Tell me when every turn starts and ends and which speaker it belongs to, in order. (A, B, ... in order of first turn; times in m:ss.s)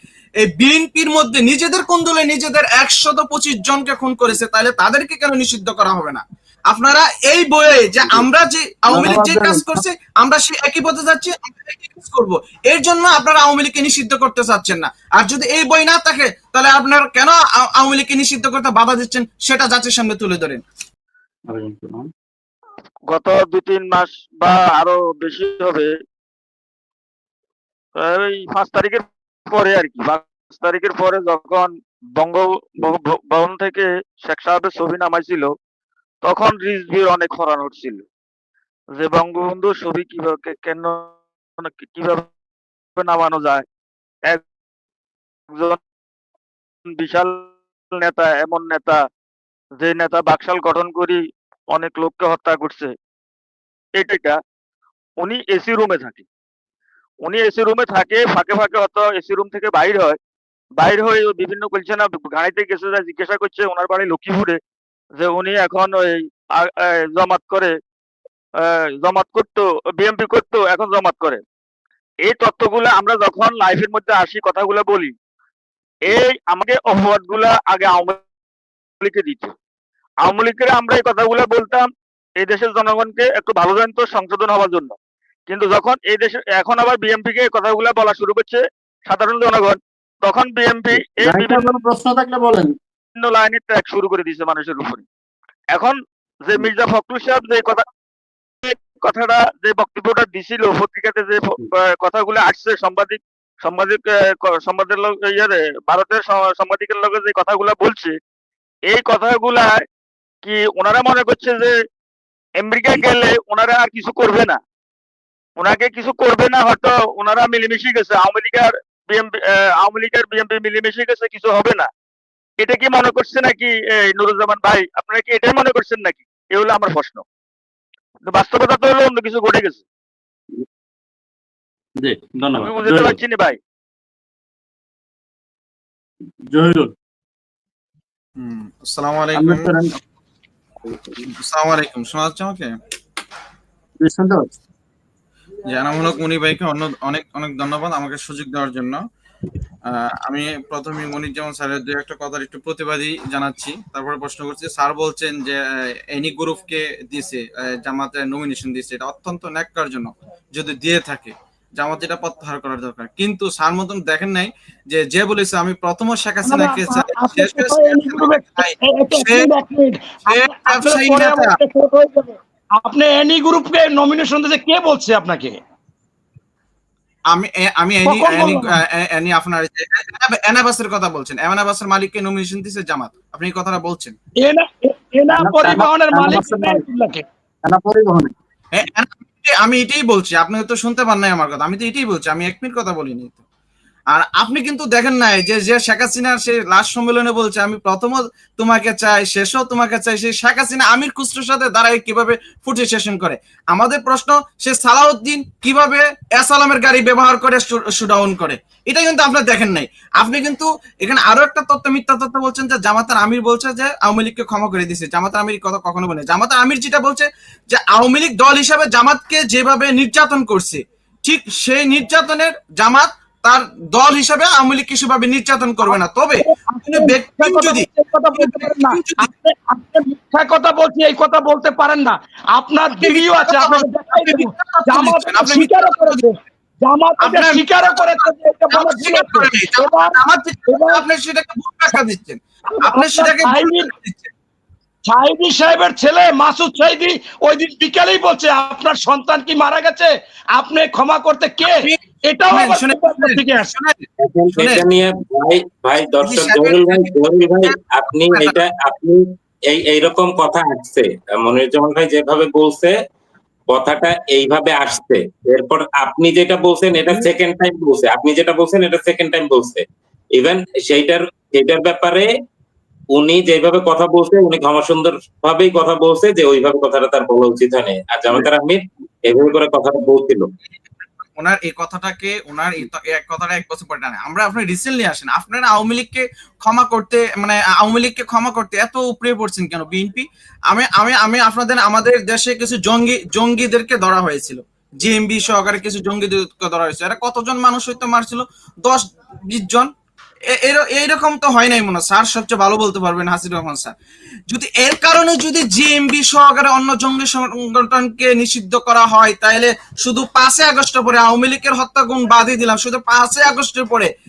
0:00.4-0:20.6 A
0:08.9-0:09.8 B
0:21.5-0:22.1 B
0:23.1-0:25.9 C
0:28.0-0:35.5 C
0:36.2-0:38.0 C
0:39.0-0:42.3 C
0:43.0-0:43.6 C
0:45.5-0:45.8 C
0:47.0-0:47.4 C
0:47.9-0:49.0 C
0:49.8-0:51.2 C
0:51.7-0:52.9 C
0:54.0-0:54.4 C
0:55.2-0:56.2 C
0:57.2-1:00.2 C
1:00.8-1:04.6 C
1:05.2-1:07.7 C
1:09.0-1:11.4 C
1:12.2-1:15.1 C
1:16.1-1:18.2 C
1:19.0-1:19.5 C
1:20.2-1:21.9 C
1:22.4-1:24.9 C
1:25.5-1:31.8 C
1:30.9-1:32.7 B
1:33.2-1:35.0 C
1:35.8-1:37.8 C
1:38.6-1:48.1 C
1:48.9-1:49.8 C
1:50.4-1:51.7 C
1:52.6-1:54.6 C
1:55.6-2:01.9 C
2:02.6-2:07.2 C
2:08.3-2:09.8 C
2:12.0-2:13.2 B
2:12.6-2:13.6 C
2:16.5-2:16.9 B
2:18.4-2:19.7 A
2:19.3-2:19.9 B
2:21.4-2:22.7 A
2:24.0-2:24.5 B
2:25.7-2:29.0 A
2:29.9-2:35.6 A
2:36.1-2:49.5 A
2:46.4-2:55.6 D
2:50.2-2:51.6 A
2:57.3-3:04.1 A
2:58.0-2:58.7 D
3:04.4-3:07.2 D
3:05.4-3:06.8 B
3:07.6-3:08.3 B
3:08.7-3:13.4 A
3:14.1-3:49.3 A
3:45.8-4:01.0 D
3:53.0-3:56.2 A
3:57.2-4:04.3 A
4:02.8-4:03.9 D
4:05.1-4:13.7 D
4:11.6-4:14.8 A
4:14.2-4:22.9 E
4:16.2-4:17.8 A
4:18.3-4:18.6 A
4:23.7-4:29.8 E
4:30.3-4:32.3 E
4:33.1-4:40.4 E
4:41.4-4:59.9 A
5:00.5-5:03.9 A
5:04.5-5:14.1 A